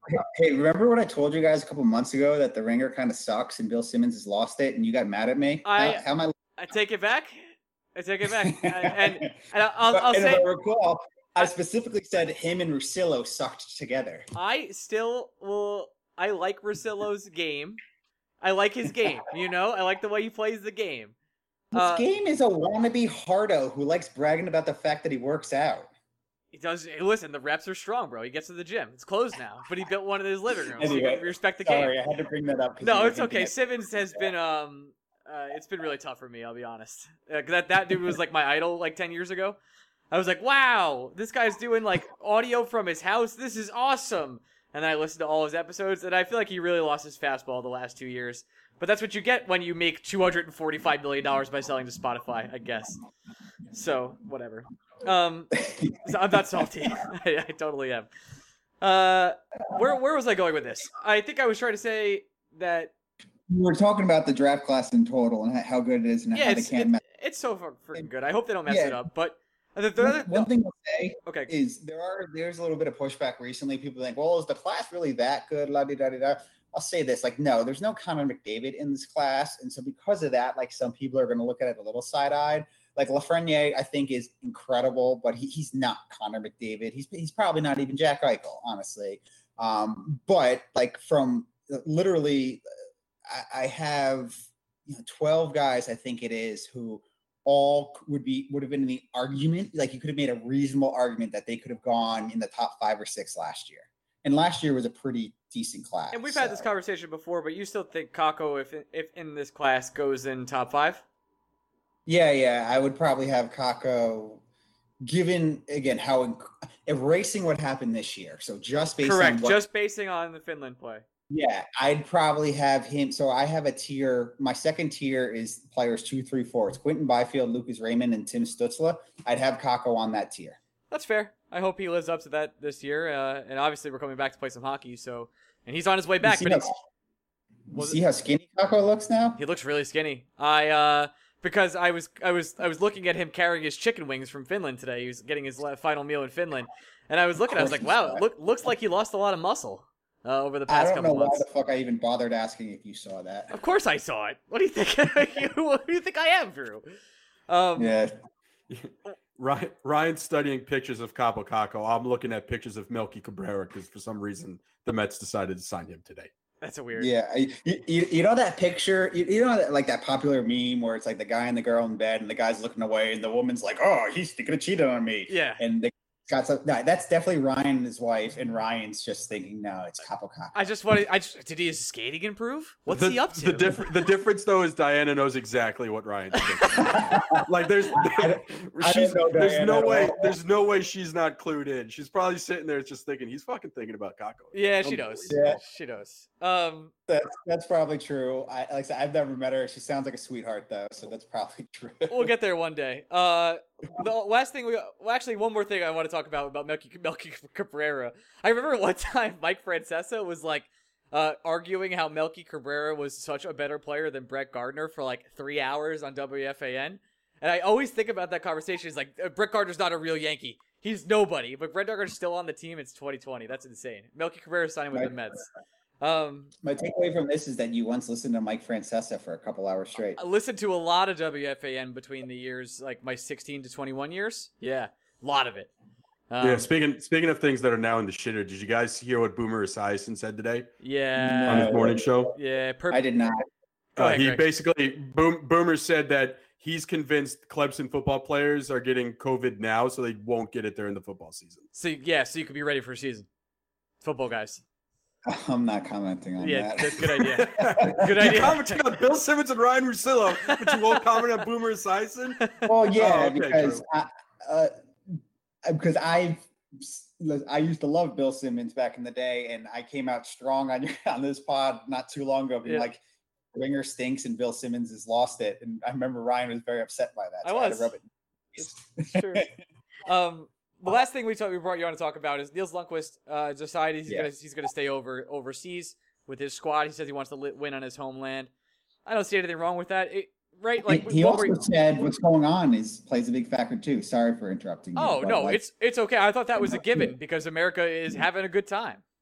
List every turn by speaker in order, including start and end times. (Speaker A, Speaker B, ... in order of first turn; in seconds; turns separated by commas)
Speaker A: 0.1-6.3, Speaker B: 5.6-6.0, Speaker B: 6.6-10.4, Speaker A: 8.3-9.4, Speaker A: 9.9-14.2, Speaker B: 14.3-17.8, Speaker B: 18.4-21.1, Speaker A: 21.7-25.9, Speaker B: 21.8-22.1, Speaker B: 26.5-31.9, Speaker A: 30.8-33.6, Speaker B: 32.8-39.6, Speaker B: 40.1-53.0, Speaker B: 53.7-58.1, Speaker A: 55.6-56.1, Speaker B: 58.8-62.9, Speaker A: 63.5-67.0, Speaker B: 66.3-70.5, Speaker A: 68.7-69.0, Speaker A: 70.0-92.6, Speaker B: 71.2-71.5, Speaker A: 93.3-106.7, Speaker B: 106.1-111.0, Speaker A: 112.1-114.4, Speaker A: 115.0-119.6, Speaker B: 119.0-121.0, Speaker A: 121.3-130.6, Speaker B: 130.9-136.7, Speaker A: 136.2-136.8, Speaker A: 137.7-139.4, Speaker B: 139.4-151.4, Speaker A: 147.5-148.2, Speaker A: 150.7-153.5, Speaker B: 153.5-156.9, Speaker B: 157.5-157.9, Speaker A: 157.8-158.2, Speaker C: 158.7-166.3, Speaker B: 166.6-167.1, Speaker A: 167.0-180.5, Speaker B: 175.3-175.6, Speaker B: 180.5-183.9, Speaker C: 182.9-195.3, Speaker B: 186.3-187.2, Speaker A: 186.8-187.5, Speaker A: 188.1-190.3, Speaker B: 194.5-196.9, Speaker A: 195.3-195.6, Speaker A: 197.1-202.3, Speaker B: 202.1-225.5, Speaker B: 226.0-226.5, Speaker A: 226.6-230.2, Speaker B: 230.2-235.7, Speaker B: 236.3-236.7, Speaker C: 236.4-240.7, Speaker B: 240.8-241.8, Speaker A: 241.2-242.1, Speaker C: 241.5-242.3, Speaker B: 242.3-243.0, Speaker A: 242.9-243.4, Speaker B: 244.0-244.4, Speaker C: 244.0-251.7, Speaker B: 251.7-253.3, Speaker B: 254.0-254.6, Speaker A: 255.3-258.4, Speaker B: 256.4-258.8, Speaker C: 257.3-263.8, Speaker B: 260.4-261.2, Speaker A: 262.6-273.0, Speaker B: 272.6-272.9, Speaker A: 273.5-279.5, Speaker B: 277.4-277.9, Speaker B: 278.6-279.5, Speaker B: 280.1-288.5, Speaker B: 289.1-291.7, Speaker A: 290.9-295.6, Speaker B: 294.9-299.0, Speaker A: 296.6-297.1